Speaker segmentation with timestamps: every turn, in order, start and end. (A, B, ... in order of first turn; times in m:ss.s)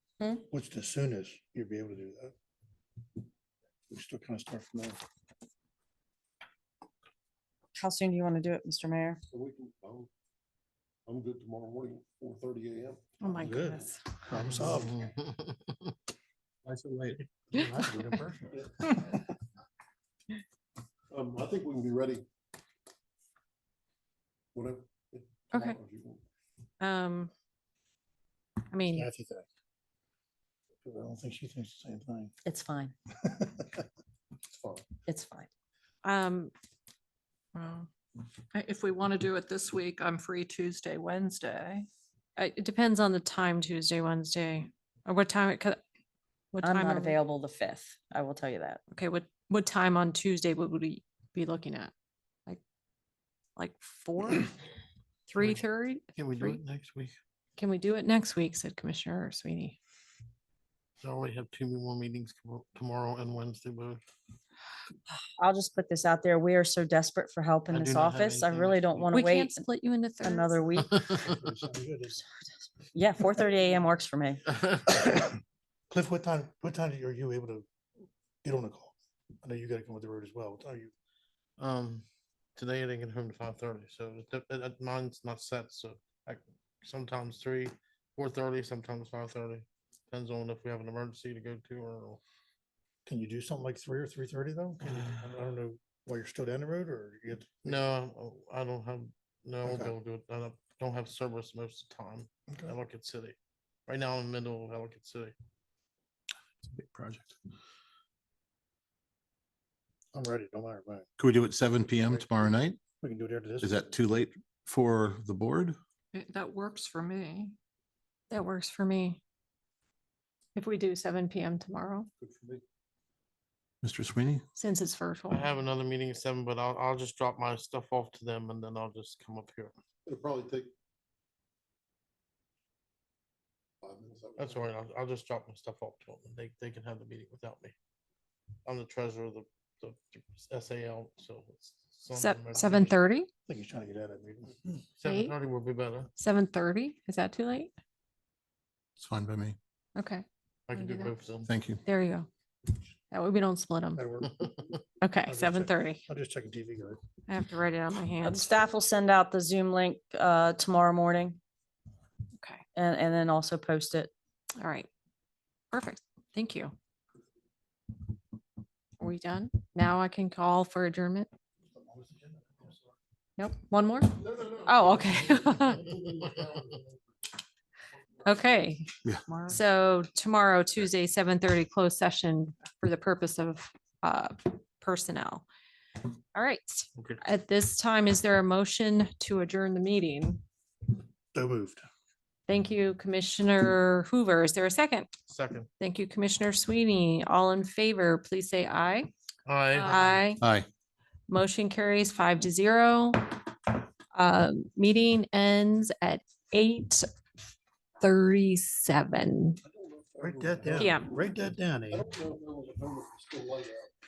0:00.5-0:02.3 A
0:03.9-0:05.0 A
0:07.8-0:09.2 B
0:09.3-0:10.1 C
0:11.1-0:13.8 C
0:13.2-0:14.2 D
0:13.4-0:15.0 A
0:14.5-0:15.9 E
0:16.6-0:17.2 F
0:17.2-0:18.9 A
0:21.1-0:22.2 C
0:24.6-0:26.2 C
0:25.5-0:25.8 D
0:26.8-0:27.3 D
0:28.7-0:29.1 D
0:28.9-0:29.5 A
0:30.8-0:32.3 A
0:32.4-0:33.0 B
0:33.2-0:33.8 A
0:34.5-0:34.9 C
0:35.1-0:35.5 B
0:36.0-0:36.5 D
0:37.6-0:37.9 D
0:38.5-0:41.9 G
0:42.4-0:45.8 D
0:46.5-0:47.2 D
0:46.6-0:48.8 B
0:48.9-0:51.9 D
0:53.6-0:54.6 D
0:55.3-0:56.6 D
0:56.2-0:57.2 E
0:57.6-0:59.8 D
1:01.0-1:04.0 E
1:05.4-1:09.6 B
1:07.7-1:09.2 E
1:09.1-1:10.7 D
1:10.2-1:10.9 B
1:10.9-1:11.4 E
1:11.0-1:12.3 A
1:12.9-1:14.4 B
1:15.9-1:17.7 A
1:18.4-1:20.9 A
1:21.6-1:22.0 E
1:22.6-1:32.2 E
1:33.1-1:37.9 A
1:37.6-1:43.4 E
1:39.6-1:39.9 A
1:43.9-1:45.4 E
1:46.6-1:47.4 F
1:50.1-1:51.1 A
1:51.2-1:52.8 F
1:53.0-1:53.8 A
1:53.6-1:55.8 F
1:56.1-1:57.6 G
1:58.3-1:59.2 D
2:00.6-2:02.1 D
2:02.2-2:02.6 C
2:03.8-2:04.5 F
2:04.6-2:05.5 D
2:05.3-2:09.7 E
2:10.1-2:10.7 C
2:13.8-2:14.6 C
2:14.4-2:17.7 E
2:18.6-2:23.0 E
2:22.2-2:23.3 D
2:23.5-2:24.8 A
2:25.0-2:26.1 E
2:25.0-2:25.4 D
2:26.2-2:27.7 D
2:29.0-2:29.6 F
2:30.0-2:31.1 D
2:30.7-2:31.5 E
2:31.4-2:31.8 F
2:31.8-2:32.3 D
2:33.1-2:34.1 D
2:34.0-2:34.4 A
2:34.4-2:34.8 E
2:35.0-2:36.0 D
2:35.3-2:37.0 A
2:37.3-2:38.6 D
2:38.2-2:41.4 B
2:42.4-2:42.6 D
2:42.7-2:44.1 B
2:44.6-2:44.9 D
2:45.7-2:46.7 D
2:49.0-2:51.3 D
2:51.7-2:52.9 A
2:53.4-2:56.0 D
2:54.4-2:55.4 C
2:56.1-2:56.4 E
2:58.2-2:58.9 D
2:59.3-2:59.6 G
2:59.5-3:05.4 D
3:06.4-3:10.4 D
3:11.3-3:11.8 A
3:12.5-3:15.1 D
3:15.3-3:15.7 E
3:15.8-3:19.1 D
3:19.5-3:20.3 E
3:19.8-3:20.4 D
3:20.4-3:20.7 F
3:21.3-3:23.6 D
3:24.1-3:27.0 D
3:28.0-3:29.6 D
3:29.6-3:31.3 C
3:30.2-3:32.1 A
3:30.8-3:31.1 D
3:31.9-3:33.9 C